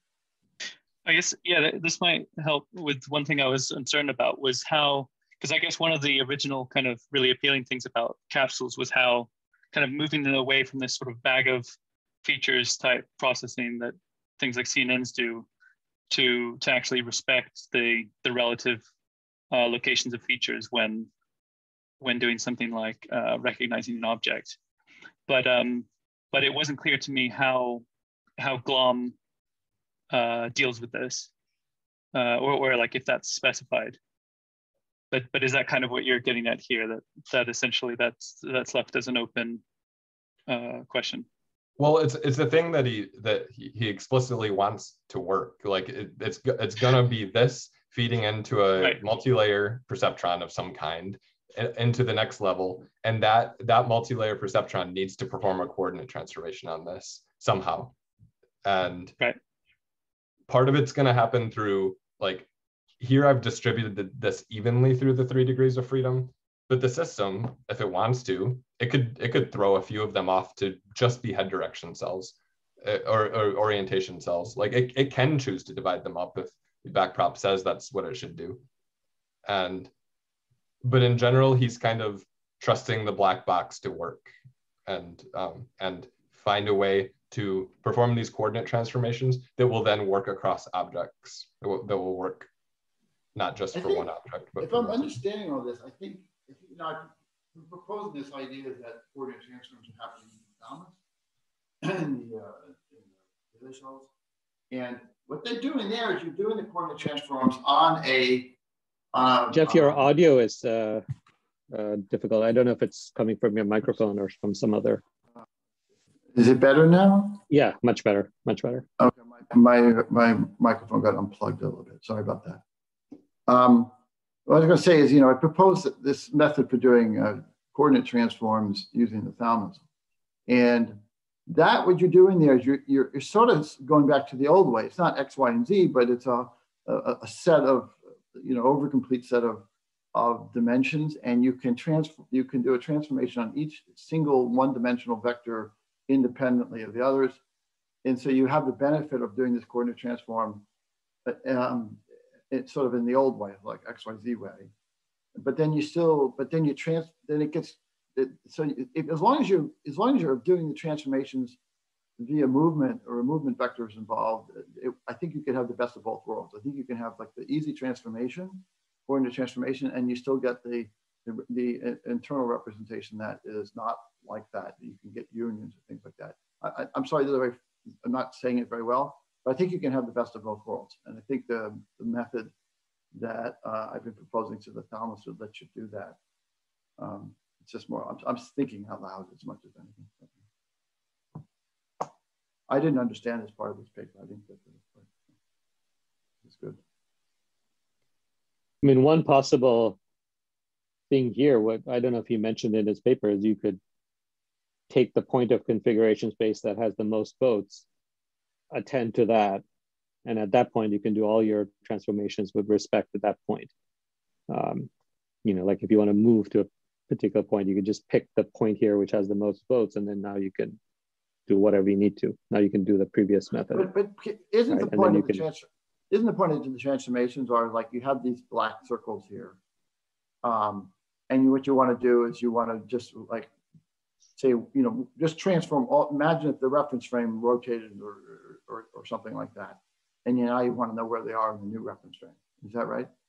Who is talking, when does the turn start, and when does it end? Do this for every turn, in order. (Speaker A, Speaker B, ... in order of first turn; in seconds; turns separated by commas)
Speaker A: 1.1-11.7, Speaker A: 12.2-15.5, Speaker A: 16.1-18.8, Speaker A: 19.5-21.1, Speaker A: 22.0-24.6, Speaker A: 25.3-27.9, Speaker A: 28.4-29.1, Speaker A: 30.1-31.3, Speaker A: 32.1-34.0, Speaker A: 35.1-39.6, Speaker A: 40.5-41.3, Speaker B: 41.8-57.9, Speaker B: 58.6-59.1, Speaker B: 60.5-62.5, Speaker B: 63.0-78.6, Speaker B: 79.5-79.9, Speaker B: 80.8-84.3, Speaker B: 84.9-92.5, Speaker B: 93.3-95.2, Speaker C: 93.7-101.0, Speaker C: 101.8-104.1, Speaker C: 104.7-108.6, Speaker C: 109.1-110.1, Speaker D: 109.5-111.0, Speaker D: 111.7-115.0, Speaker C: 116.3-117.4, Speaker D: 117.5-118.9, Speaker C: 119.0-122.6, Speaker C: 123.5-123.9, Speaker C: 124.5-129.8, Speaker C: 130.5-147.4, Speaker C: 148.0-150.6, Speaker C: 151.3-154.7, Speaker C: 155.3-161.6, Speaker C: 162.2-182.5, Speaker C: 183.1-186.2, Speaker C: 187.0-190.4, Speaker C: 192.7-195.1, Speaker C: 196.4-196.8, Speaker D: 198.8-200.0, Speaker D: 201.1-203.8, Speaker D: 204.9-207.8, Speaker D: 208.7-209.6, Speaker D: 210.3-213.7, Speaker D: 214.5-214.9, Speaker D: 215.4-220.8, Speaker D: 221.5-223.9, Speaker C: 223.7-229.6, Speaker D: 224.7-225.4, Speaker C: 230.4-233.5, Speaker C: 234.4-243.1